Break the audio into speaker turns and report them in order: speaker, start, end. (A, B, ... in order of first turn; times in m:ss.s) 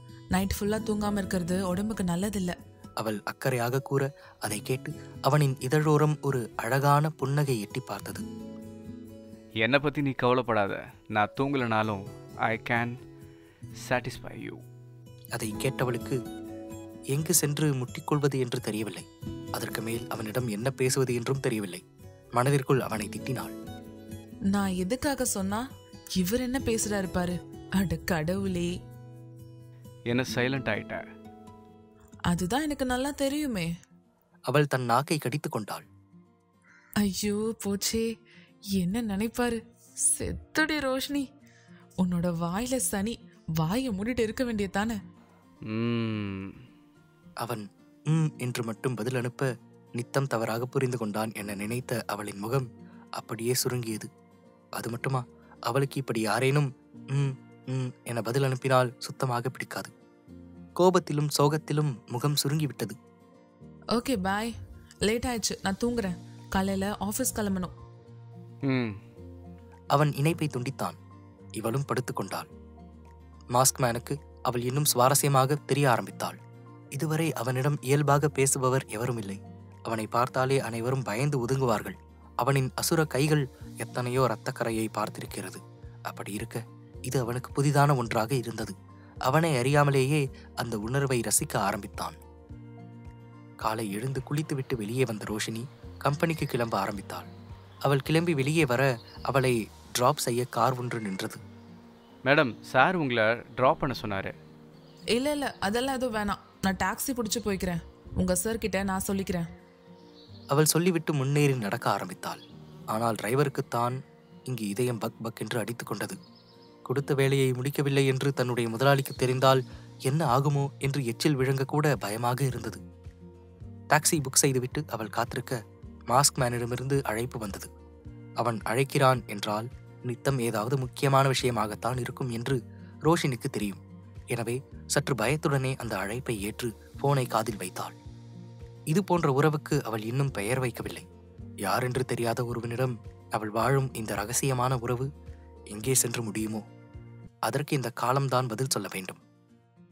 0:00.3-0:02.5 A
0:03.0-0:08.2 B
0:09.6-0:12.9 C
0:13.8-0:14.6 C
0:15.3-0:16.2 B
0:17.1-0:19.0 B
0:19.6-0:21.8 B
0:22.4-0:23.5 B
0:24.5-0:25.6 A
0:26.2-0:28.7 A
0:30.1-0:31.0 C
0:32.3-0:33.7 A
0:34.5-0:35.8 B
0:37.0-0:38.0 A
0:38.8-0:41.2 A
0:42.0-0:45.0 A
0:45.6-0:46.6 C
0:47.4-0:52.6 B
0:53.2-0:54.1 B
0:54.8-0:59.9 B
1:00.8-1:03.0 B
1:04.0-1:04.5 A
1:05.0-1:07.7 A
1:08.6-1:09.0 C
1:09.9-1:11.0 B
1:11.6-1:12.5 B
1:13.5-1:16.4 B
1:16.9-1:28.7 B
1:29.2-1:32.2 B
1:33.6-1:37.3 B
1:37.8-1:41.4 B
1:42.3-1:44.3 C
1:45.2-1:49.4 A
1:50.5-1:54.0 B
1:54.5-1:56.2 B
1:56.8-2:02.8 B
2:03.9-2:05.6 B
2:06.1-2:07.7 B
2:08.4-2:13.8 B
2:14.3-2:18.0 B
2:18.9-2:21.0 B
2:21.6-2:25.1 B
2:25.7-2:26.6 B
2:27.4-2:29.2 B